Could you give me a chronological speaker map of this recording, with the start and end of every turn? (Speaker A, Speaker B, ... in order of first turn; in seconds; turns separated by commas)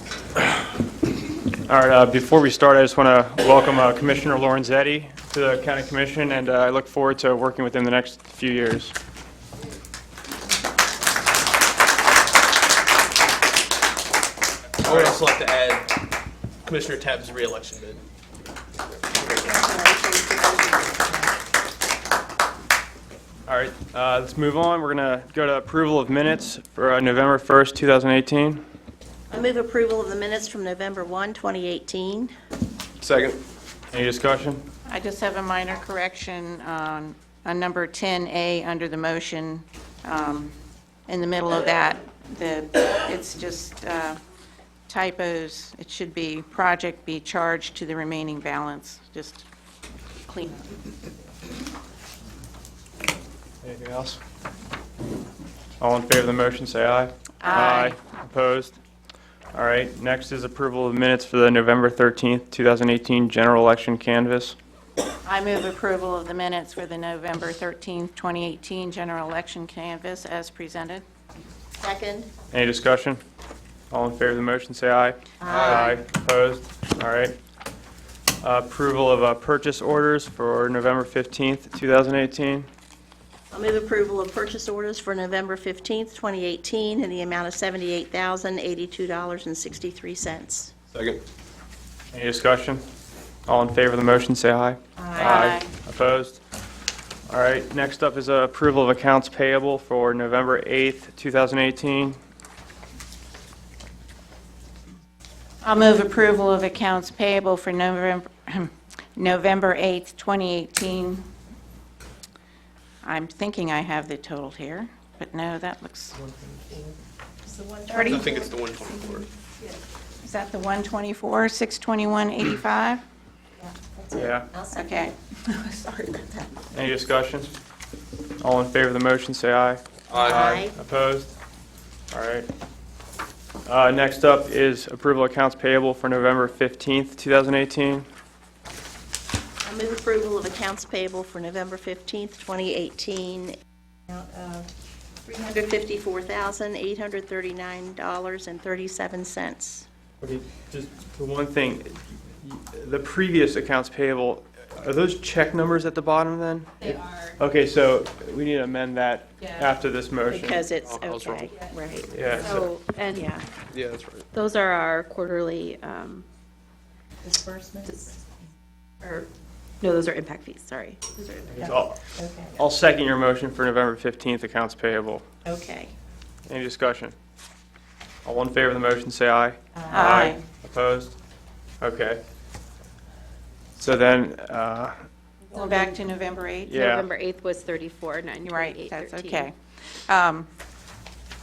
Speaker A: 1.6-8.9, Speaker B: 14.8-15.9, Speaker A: 14.8-15.2, Speaker B: 16.6-18.0, Speaker C: 19.4-21.1, Speaker A: 23.4-28.6, Speaker C: 29.3-32.3, Speaker B: 33.0-33.4, Speaker A: 33.9-34.6, Speaker D: 34.9-40.5, Speaker D: 41.1-44.2, Speaker D: 44.9-49.5, Speaker D: 50.3-50.6, Speaker A: 53.6-54.2, Speaker A: 55.8-58.8, Speaker D: 57.4-58.0, Speaker A: 59.5-64.5, Speaker D: 65.2-71.0, Speaker C: 71.8-72.3, Speaker A: 72.5-73.2, Speaker A: 73.9-77.4, Speaker C: 75.4-76.0, Speaker B: 75.4-75.9, Speaker A: 78.4-82.7, Speaker C: 83.5-90.7, Speaker B: 90.9-91.2, Speaker A: 92.1-92.8, Speaker A: 93.5-96.4, Speaker D: 95.0-95.7, Speaker A: 97.3-102.2, Speaker D: 105.6-111.2, Speaker D: 113.0-116.2, Speaker A: 116.2-116.9, Speaker C: 117.5-118.5, Speaker D: 117.9-118.4, Speaker B: 118.0-119.3, Speaker D: 120.2-123.0, Speaker C: 123.6-125.0, Speaker A: 124.1-124.5, Speaker D: 124.7-126.5, Speaker A: 126.7-127.5, Speaker A: 128.4-131.3, Speaker B: 130.1-130.6, Speaker C: 130.2-130.8, Speaker A: 132.1-132.5, Speaker A: 133.7-138.1, Speaker C: 139.6-143.6, Speaker C: 144.1-144.6, Speaker C: 145.2-149.8, Speaker A: 150.2-160.7, Speaker E: 156.8-157.4, Speaker E: 159.4-159.7, Speaker C: 160.2-163.4, Speaker B: 160.8-161.5, Speaker A: 162.1-162.6, Speaker E: 162.4-163.4, Speaker B: 163.7-164.2, Speaker E: 164.3-166.2, Speaker C: 167.2-167.9, Speaker E: 167.8-168.1, Speaker E: 169.0-169.3, Speaker E: 169.8-171.7, Speaker A: 171.5-172.0, Speaker C: 172.2-172.5, Speaker A: 172.5-175.2, Speaker C: 175.4-175.9, Speaker A: 176.5-177.1, Speaker A: 178.2-181.1, Speaker D: 179.9-180.4, Speaker A: 181.8-182.2, Speaker A: 183.8-184.9, Speaker D: 185.5-186.8, Speaker A: 186.7-187.1, Speaker E: 186.7-189.5, Speaker D: 188.4-190.5